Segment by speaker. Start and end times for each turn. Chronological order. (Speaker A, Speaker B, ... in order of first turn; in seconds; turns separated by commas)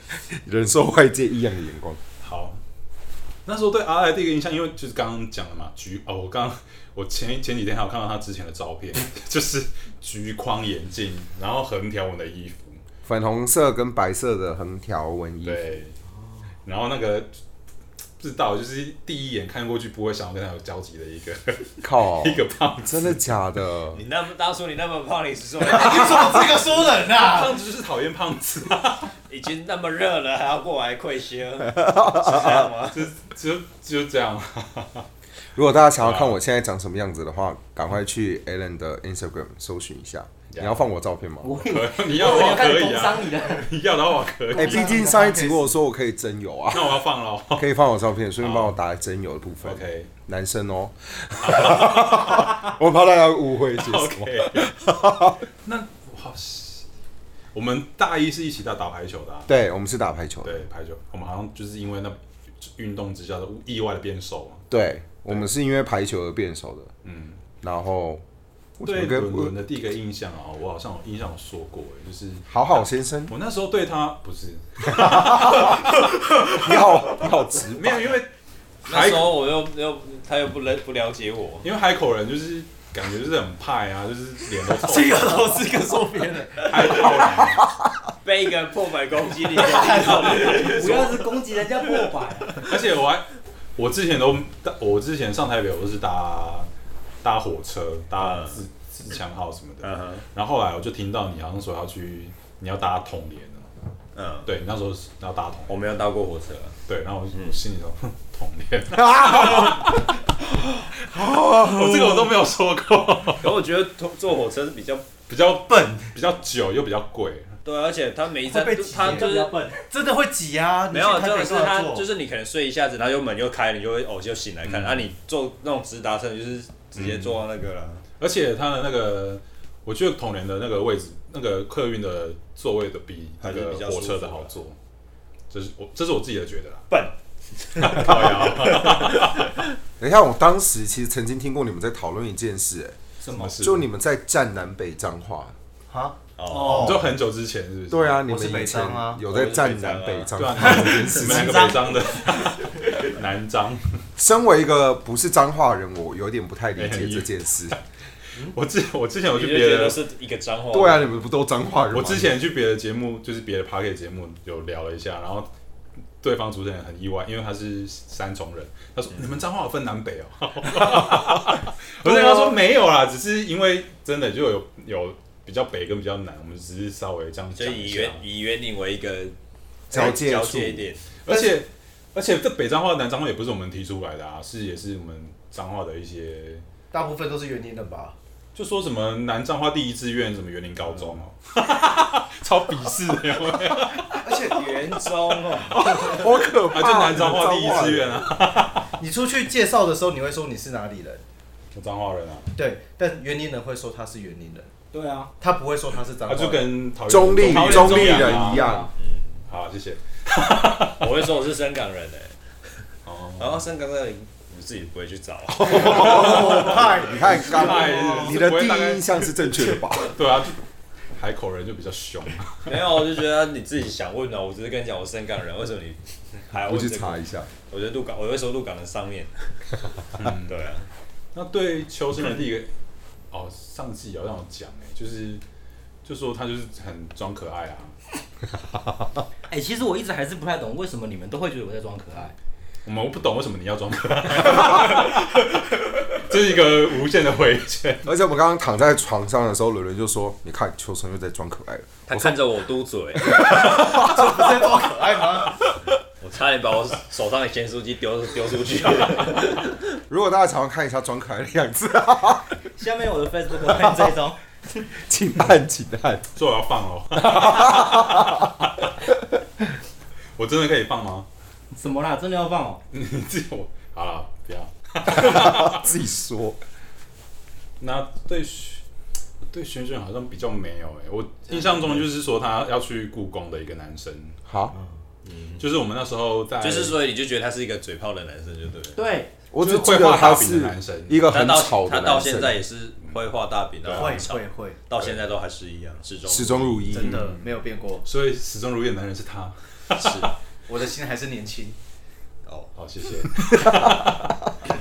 Speaker A: 0.3-2.0, Speaker B: 2.2-2.6, Speaker B: 3.5-12.8, Speaker A: 13.1-15.8, Speaker B: 15.4-16.0, Speaker B: 16.6-17.3, Speaker B: 18.2-23.2, Speaker A: 21.8-24.0, Speaker C: 23.9-26.6, Speaker D: 25.6-27.6, Speaker B: 27.0-29.1, Speaker C: 29.3-33.1, Speaker A: 31.8-32.6, Speaker B: 32.8-35.1, Speaker A: 35.5-41.7, Speaker B: 36.0-36.4, Speaker B: 40.5-40.8, Speaker E: 41.4-43.7, Speaker B: 41.6-45.0, Speaker D: 44.5-45.8, Speaker A: 44.5-47.0, Speaker B: 46.7-47.7, Speaker A: 47.5-55.5, Speaker B: 48.4-48.8, Speaker B: 49.6-50.1, Speaker B: 51.4-52.7, Speaker B: 53.8-54.8, Speaker B: 55.6-56.9, Speaker B: 57.5-59.5, Speaker A: 59.5-60.6, Speaker B: 60.4-64.7, Speaker A: 64.7-66.9, Speaker B: 67.0-67.4, Speaker A: 67.6-68.2, Speaker A: 68.8-69.5, Speaker B: 68.8-75.8, Speaker A: 72.5-73.3, Speaker A: 74.8-78.1, Speaker D: 76.0-77.3, Speaker B: 77.7-78.3, Speaker C: 78.9-81.7, Speaker B: 78.9-79.4, Speaker B: 81.6-85.6, Speaker D: 84.7-87.5, Speaker B: 86.6-87.7, Speaker C: 88.2-91.2, Speaker D: 89.6-91.1, Speaker E: 90.4-92.6, Speaker B: 92.6-96.7, Speaker B: 97.2-103.7, Speaker C: 98.2-98.6, Speaker C: 99.8-100.2, Speaker C: 104.2-104.5, Speaker B: 104.5-105.7, Speaker C: 105.7-106.8, Speaker B: 106.9-110.1, Speaker C: 107.3-107.6, Speaker A: 109.0-112.3, Speaker B: 111.0-113.5, Speaker C: 113.4-115.1, Speaker B: 115.3-117.6, Speaker D: 115.7-116.0, Speaker C: 117.7-119.6, Speaker D: 118.5-122.1, Speaker E: 119.0-119.8, Speaker C: 120.9-128.0, Speaker B: 124.7-125.1, Speaker B: 127.0-127.4, Speaker B: 128.2-134.8, Speaker C: 133.4-134.5, Speaker B: 135.5-136.9, Speaker C: 136.9-139.7, Speaker B: 137.8-139.5, Speaker A: 140.0-143.0, Speaker E: 143.2-143.6, Speaker B: 143.3-143.9, Speaker A: 143.6-145.6, Speaker D: 145.9-147.2, Speaker C: 146.4-146.9, Speaker E: 146.5-147.0, Speaker B: 146.6-148.3, Speaker A: 147.9-151.9, Speaker D: 148.3-149.2, Speaker C: 149.2-150.7, Speaker B: 150.3-154.0, Speaker E: 151.3-151.7, Speaker A: 154.2-157.8, Speaker B: 156.8-157.8, Speaker B: 158.4-160.0, Speaker C: 159.3-161.2, Speaker A: 160.7-162.3, Speaker B: 161.9-165.5, Speaker B: 166.2-178.2, Speaker C: 177.6-179.4, Speaker A: 179.9-180.9, Speaker C: 179.9-181.1, Speaker B: 181.2-186.7, Speaker D: 181.3-181.6, Speaker D: 186.9-188.2, Speaker B: 188.6-194.6, Speaker D: 194.2-194.8, Speaker C: 194.4-196.1, Speaker B: 195.2-199.0, Speaker A: 195.9-198.3, Speaker D: 199.0-201.2, Speaker B: 201.7-202.5, Speaker D: 202.6-204.7, Speaker E: 204.9-205.3, Speaker D: 205.4-206.8, Speaker B: 206.3-208.7, Speaker A: 207.1-208.9, Speaker E: 207.4-208.9, Speaker C: 209.0-209.4, Speaker B: 209.5-211.3, Speaker C: 211.0-212.4, Speaker B: 213.1-213.7, Speaker C: 213.4-217.1, Speaker D: 215.6-218.4, Speaker A: 215.7-220.2, Speaker B: 215.9-216.7, Speaker B: 217.3-220.6, Speaker B: 221.2-222.9, Speaker C: 222.7-229.5, Speaker A: 226.6-227.5, Speaker B: 230.2-230.6, Speaker C: 230.5-230.9, Speaker B: 231.3-232.7, Speaker B: 233.3-235.4, Speaker B: 236.1-238.0, Speaker E: 239.5-242.3, Speaker B: 242.8-248.1, Speaker A: 248.1-252.4, Speaker C: 252.1-253.6, Speaker A: 253.3-254.5, Speaker D: 253.5-255.6, Speaker C: 256.2-259.8, Speaker A: 260.1-262.5, Speaker E: 262.8-264.4, Speaker A: 263.7-264.1, Speaker A: 265.0-266.3, Speaker B: 266.4-268.9, Speaker A: 267.2-268.5, Speaker B: 270.4-271.3, Speaker E: 271.7-272.8, Speaker B: 272.9-275.9, Speaker A: 275.1-276.6, Speaker B: 277.8-278.8, Speaker B: 279.5-284.4, Speaker A: 284.5-284.8, Speaker C: 285.2-285.6, Speaker B: 285.6-287.0, Speaker C: 286.6-289.0, Speaker E: 289.0-289.3, Speaker A: 289.5-292.6, Speaker B: 289.6-291.3, Speaker C: 291.3-296.9, Speaker B: 293.8-294.3, Speaker D: 294.0-294.8, Speaker A: 296.3-297.3, Speaker D: 296.9-298.1, Speaker B: 296.9-297.5, Speaker B: 298.1-300.3, Speaker C: 299.9-300.3, Speaker D: 300.7-301.8, Speaker C: 302.5-302.7, Speaker B: 302.8-304.5